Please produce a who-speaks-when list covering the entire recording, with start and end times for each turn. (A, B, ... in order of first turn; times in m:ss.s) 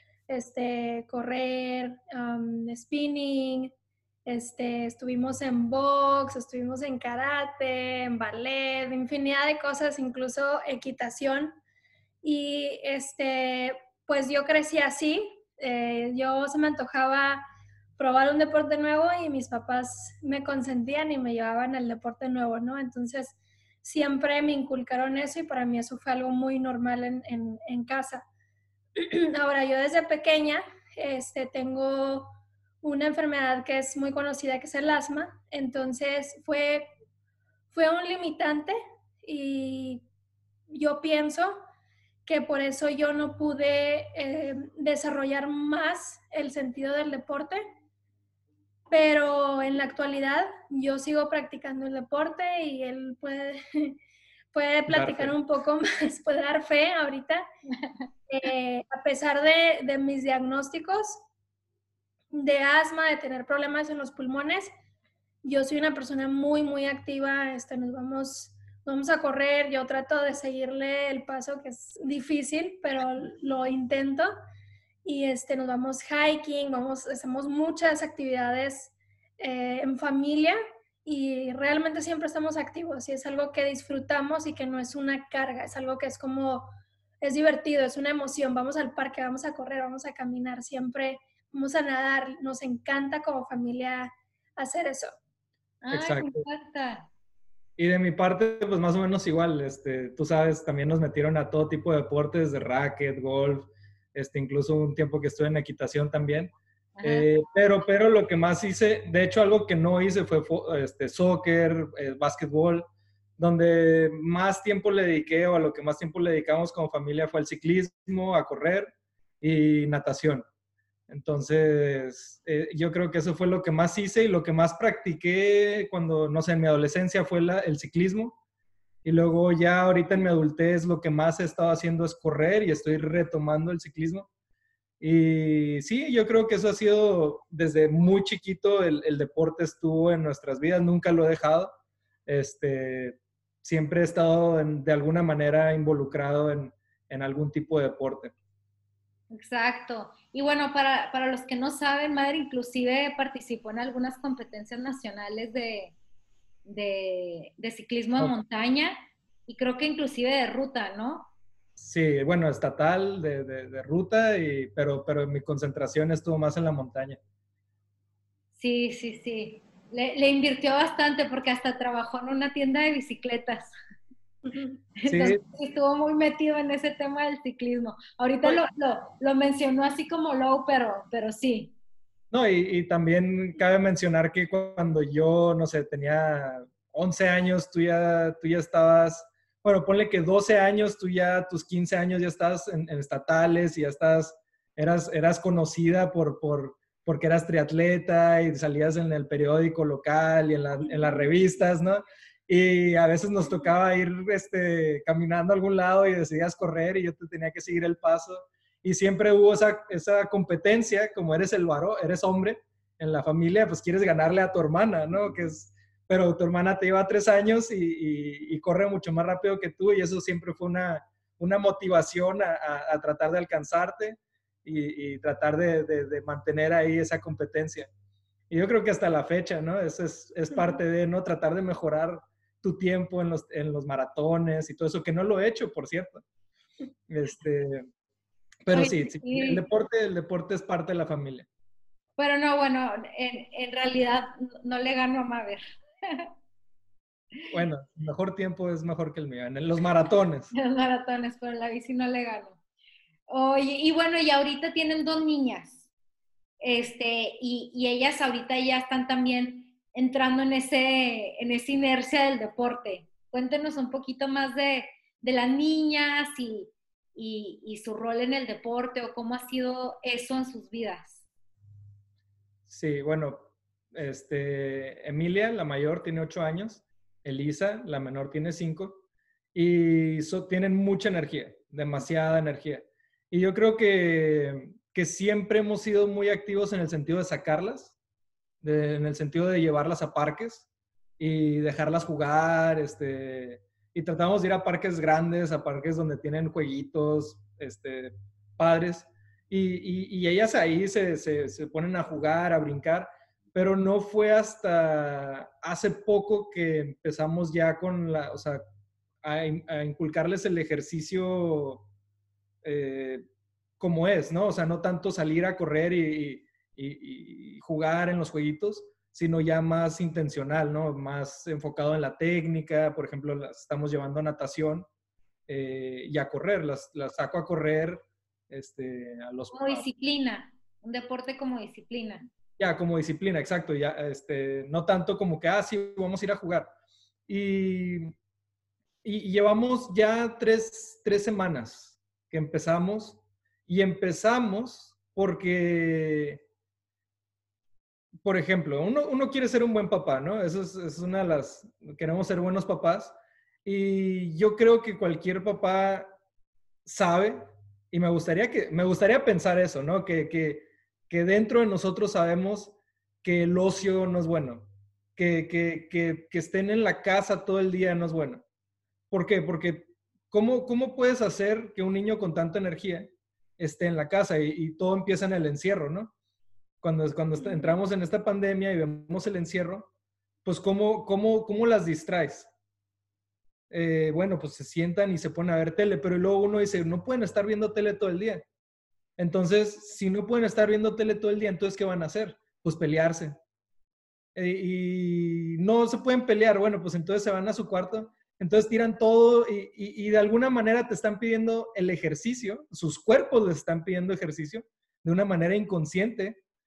0:00.3-0:03.7 A
0:04.3-0:11.6 A
0:12.2-0:17.4 A
0:18.0-0:28.2 A
0:29.0-0:36.9 A
0:37.7-0:40.0 A
0:40.7-0:41.6 A
0:42.3-0:47.6 A
0:48.9-0:54.0 A
0:54.5-0:57.4 A
0:54.9-0:55.4 B
0:58.3-1:01.2 A
1:02.3-1:04.7 A
1:05.4-1:14.3 A
1:15.0-1:26.7 A
1:27.2-1:35.1 A
1:35.8-1:37.1 C
1:35.9-1:36.4 B
1:37.8-2:00.4 B
1:47.0-1:47.3 C
2:01.1-2:08.4 B
2:09.0-2:14.3 B
2:15.0-2:21.7 B
2:22.3-2:28.3 B
2:29.3-2:36.0 C
2:36.7-2:39.0 C
2:39.5-2:41.3 C
2:41.8-2:47.2 B
2:48.5-2:53.7 C
2:55.0-3:01.8 C
2:55.1-2:55.4 B
3:02.3-3:47.9 B
3:48.5-3:56.2 B
3:57.1-3:57.9 B
3:58.6-4:01.5 B
3:58.7-3:59.6 C
4:02.2-4:06.3 C
4:07.5-4:10.5 B
4:10.5-4:12.6 C
4:13.3-4:15.8 C
4:16.6-4:31.2 C
4:32.7-4:39.0 B
4:39.5-4:48.0 B
4:48.6-4:50.7 B
4:51.2-5:08.6 B
5:09.2-5:11.9 B
5:12.6-5:13.2 B
5:13.8-5:24.9 B
5:25.5-5:29.9 B
5:29.5-5:32.3 C
5:32.6-5:36.7 B
5:37.3-5:38.2 B
5:39.0-5:46.4 B
5:48.2-5:56.1 B
5:56.9-6:08.4 B
6:09.1-6:16.1 B
6:16.8-6:19.9 B
6:20.4-6:22.5 B
6:23.7-6:28.4 B
6:29.2-6:33.4 B
6:34.4-6:46.4 B